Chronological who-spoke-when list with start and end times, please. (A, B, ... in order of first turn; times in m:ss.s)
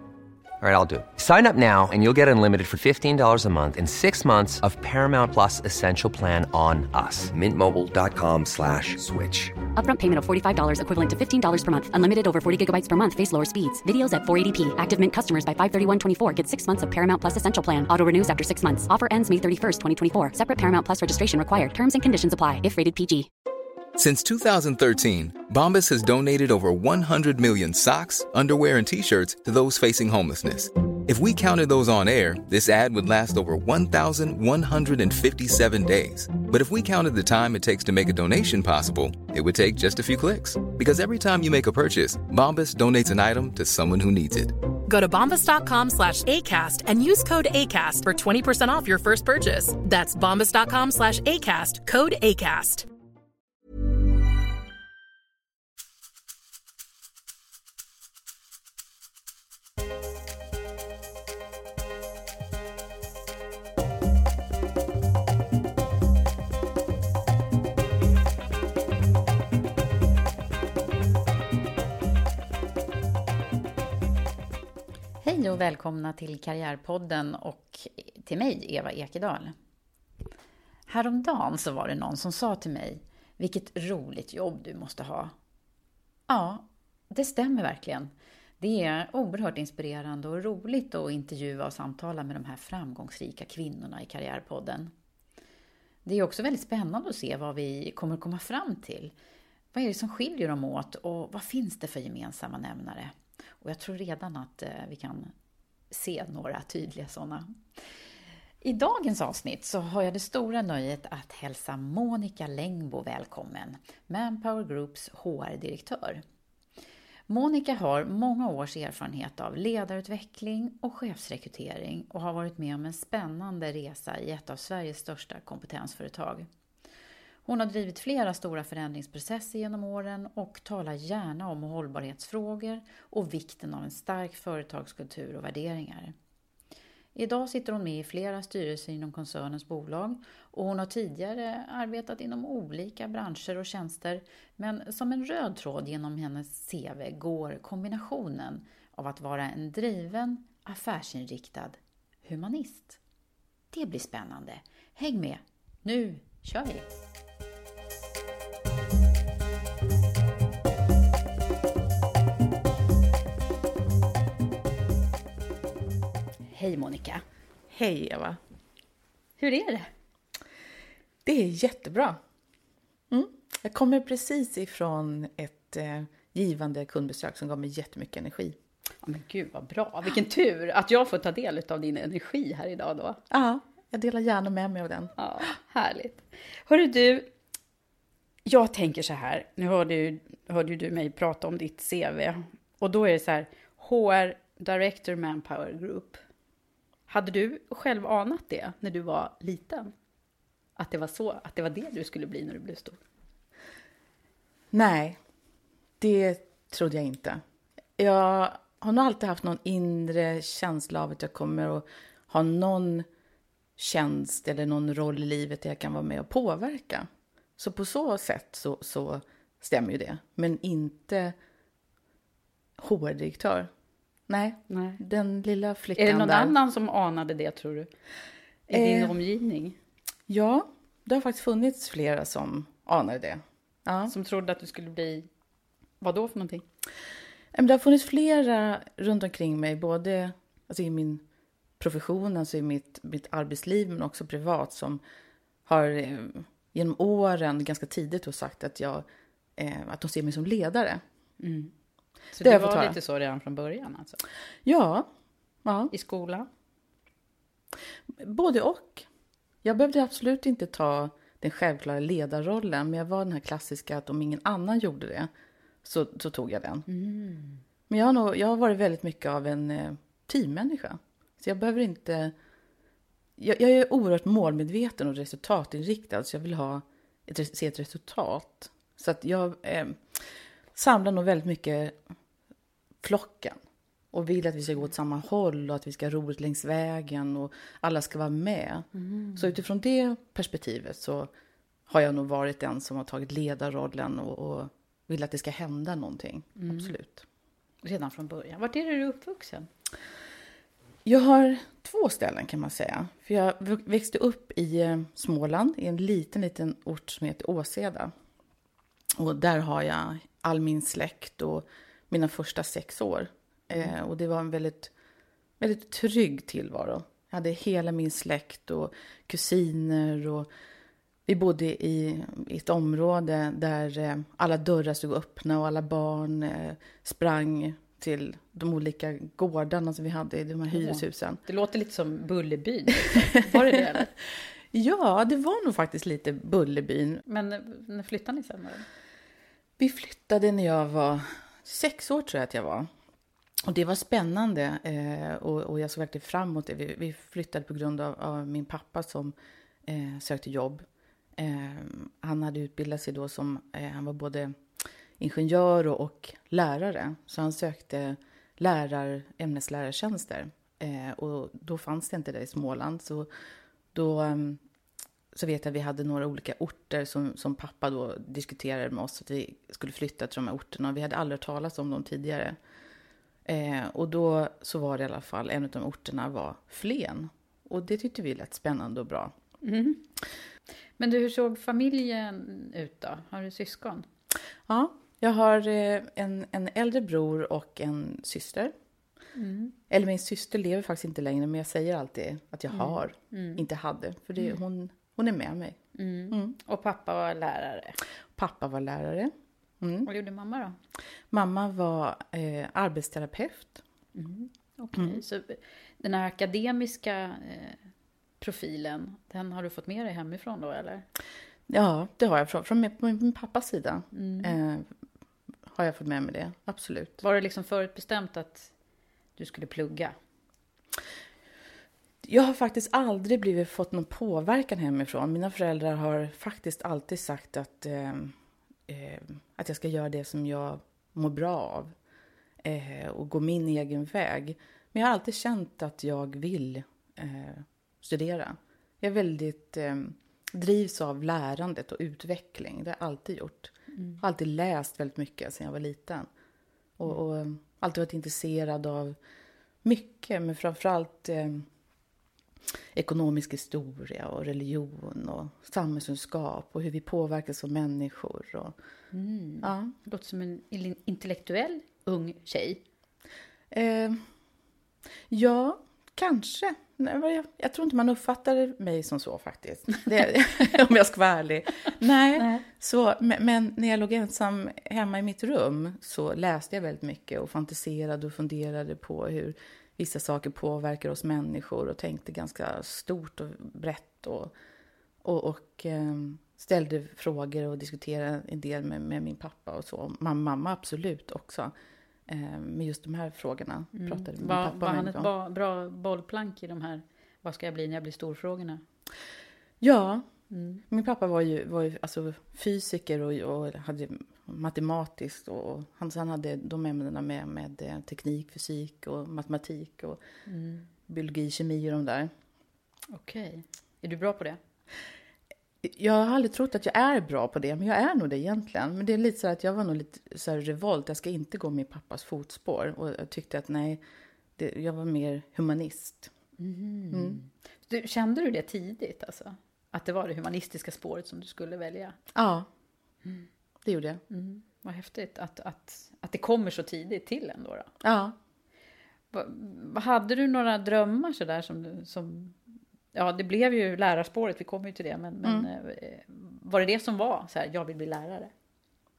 0:00.6-0:09.6 A
0:09.8-0:23.3 B
0:24.0-0:44.6 C
0:44.9-0:52.9 D
1:15.2-1:19.6 E
1:20.9-1:25.3 E
1:26.3-1:34.9 E
1:36.0-1:39.1 E
1:39.7-1:45.3 E
1:45.9-1:47.5 E
1:48.6-1:56.2 E
1:57.3-2:06.5 E
2:07.5-2:16.1 E
2:17.2-2:33.0 E
2:33.7-2:36.9 E
2:46.5-2:47.2 E
2:47.7-2:48.4 F
2:49.4-2:49.9 E
2:51.2-2:52.2 F
2:53.1-2:58.6 F
2:59.0-3:03.2 E
3:03.3-3:05.1 F
3:05.2-3:07.3 E
3:08.5-3:16.2 E
3:17.1-3:19.9 E
3:20.8-3:23.0 E
3:24.7-3:25.2 F
3:26.0-3:27.4 F
3:28.0-3:33.1 F
3:33.8-3:41.4 F
3:42.8-3:43.7 F
3:44.3-3:46.6 F
3:44.7-3:45.0 E
3:46.0-3:47.9 E
3:48.7-3:49.8 E
3:48.7-3:49.1 F
3:50.3-3:54.1 F
3:54.1-3:55.3 E
3:56.0-3:56.6 E
3:57.5-4:01.2 F
4:01.8-4:05.0 F
4:05.6-4:09.0 F
4:09.6-4:11.0 F
4:11.4-4:11.7 E
4:12.3-4:14.2 E
4:12.4-4:13.0 F
4:14.6-4:15.1 F
4:15.6-4:15.9 F
4:15.9-4:16.5 E
4:18.2-4:19.1 F
4:19.6-4:25.3 F
4:25.8-4:26.8 F
4:26.9-4:27.6 E
4:27.9-4:32.3 F
4:33.4-4:42.0 F
4:43.0-4:43.6 F
4:44.1-4:51.3 F
4:48.9-4:49.6 E
4:51.9-4:57.2 F
4:56.6-4:56.9 E
4:57.8-4:59.7 E
5:01.0-5:08.1 F
5:09.2-5:14.9 F
5:15.6-5:20.5 F
5:21.3-5:31.4 F
5:30.7-5:34.1 E
5:33.1-5:33.8 F
5:34.7-5:37.2 F
5:37.3-5:38.8 E
5:39.8-5:42.9 F
5:43.6-5:49.4 F
5:49.9-5:50.8 F
5:51.4-5:54.6 F
5:55.2-6:03.3 F
6:03.9-6:04.6 F
6:05.3-6:12.6 F
6:13.5-6:19.3 F
6:19.6-6:20.0 E
6:21.0-6:24.1 E
6:24.7-6:28.7 F
6:29.4-6:29.8 E
6:29.9-6:35.8 F
6:32.7-6:33.6 E
6:36.0-6:38.0 E
6:36.3-6:36.6 F
6:38.4-6:40.1 F
6:40.0-6:40.8 E
6:41.3-6:43.8 F
6:44.1-6:47.8 E
6:45.0-6:45.2 F
6:48.4-6:51.1 E
6:51.7-6:54.9 F
6:54.1-6:54.6 E
6:55.7-6:57.2 F
6:57.2-6:58.7 E
6:59.4-7:00.2 E
7:02.2-7:08.4 F
7:08.9-7:11.9 F
7:12.6-7:26.3 F
7:23.9-7:24.2 E
7:27.0-7:29.2 F
7:29.8-7:31.7 F
7:32.9-7:38.8 F
7:39.1-7:42.8 E
7:39.6-7:39.9 F
7:43.7-7:44.2 F
7:45.3-8:04.5 F
7:52.4-7:52.7 E
8:05.2-8:11.7 F
8:12.3-8:15.3 F
8:14.0-8:18.8 E
8:19.8-8:20.3 F
8:20.5-8:20.8 E
8:20.9-8:30.2 F
8:30.5-8:30.9 E
8:31.1-8:32.3 F
8:33.1-8:34.6 E
8:35.8-8:44.0 F
8:44.6-8:46.3 F
8:46.6-8:52.2 E
8:47.1-8:47.4 F
8:52.3-8:52.7 F
8:53.8-8:54.2 F
8:54.3-8:57.9 E
8:58.0-8:58.4 F
8:59.3-9:02.6 E
9:03.1-9:08.5 E
9:05.4-9:05.7 F